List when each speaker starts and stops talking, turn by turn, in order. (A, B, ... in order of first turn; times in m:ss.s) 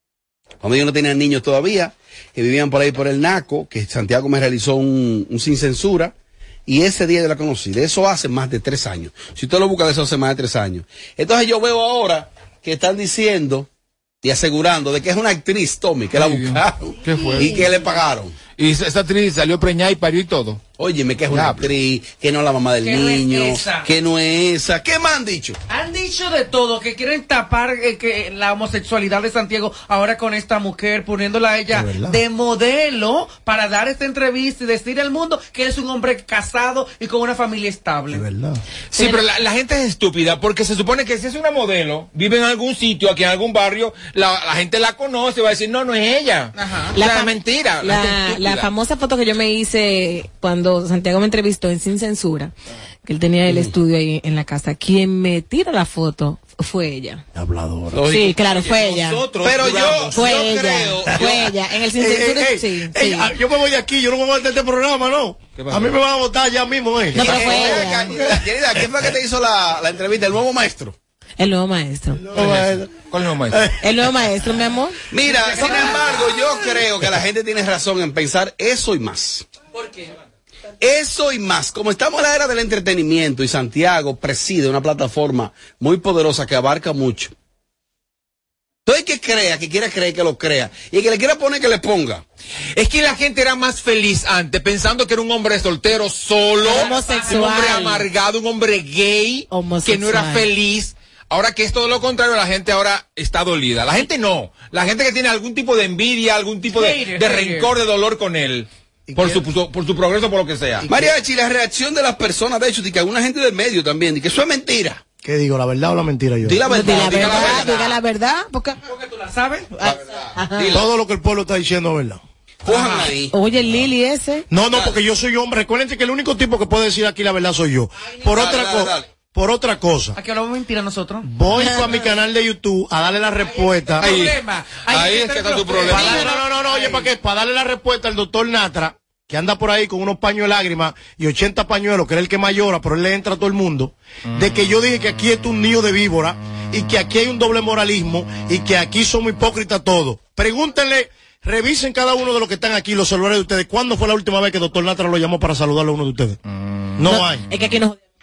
0:00.6-0:06.1 A
0:06.7-0:13.7 A
0:14.2-0:18.3 A
0:16.1-0:17.7 B
0:18.6-0:20.6 B
0:20.8-0:25.6 A
0:21.3-0:21.7 B
0:22.8-0:23.9 C
0:25.7-0:38.2 C
0:31.7-0:32.2 D
0:38.1-0:38.6 D
0:38.9-0:48.7 B
0:38.9-0:39.2 E
0:46.5-0:47.0 C
0:46.9-0:52.5 E
0:53.0-0:57.2 E
0:53.4-0:53.7 A
0:57.3-0:58.1 D
0:58.1-0:59.3 E
0:58.1-1:00.5 B
0:59.4-1:01.5 A
1:00.1-1:03.3 E
1:01.1-1:01.4 D
1:01.9-1:08.4 D
1:05.5-1:05.9 B
1:07.1-1:11.0 A
1:07.1-1:08.2 E
1:11.4-1:12.4 E
1:12.3-1:13.0 D
1:12.3-1:13.7 B
1:13.5-1:14.1 D
1:13.8-1:15.0 E
1:15.1-1:19.4 A
1:15.4-1:16.2 C
1:20.8-1:27.3 A
1:28.8-1:32.2 A
1:32.7-1:50.9 B
1:36.6-1:38.1 E
1:36.6-1:37.8 C
1:39.5-1:40.5 E
1:46.7-1:47.7 C
1:49.1-1:49.4 D
1:50.9-1:55.0 A
1:55.2-1:56.6 D
1:56.4-1:57.8 A
1:56.6-1:58.8 E
1:57.0-1:58.0 B
1:57.3-1:57.6 C
1:58.8-1:59.9 C
1:59.8-2:00.8 E
2:00.5-2:00.8 B
2:00.7-2:02.2 D
2:02.6-2:03.3 A
2:02.7-2:03.1 C
2:03.3-2:04.4 E
2:04.5-2:10.2 D
2:04.7-2:05.0 A
2:08.2-2:09.1 A
2:10.2-2:12.1 C
2:11.2-2:14.2 D
2:13.4-2:17.1 C
2:14.0-2:16.4 B
2:15.9-2:36.4 D
2:37.0-2:37.5 D
2:37.0-2:37.9 E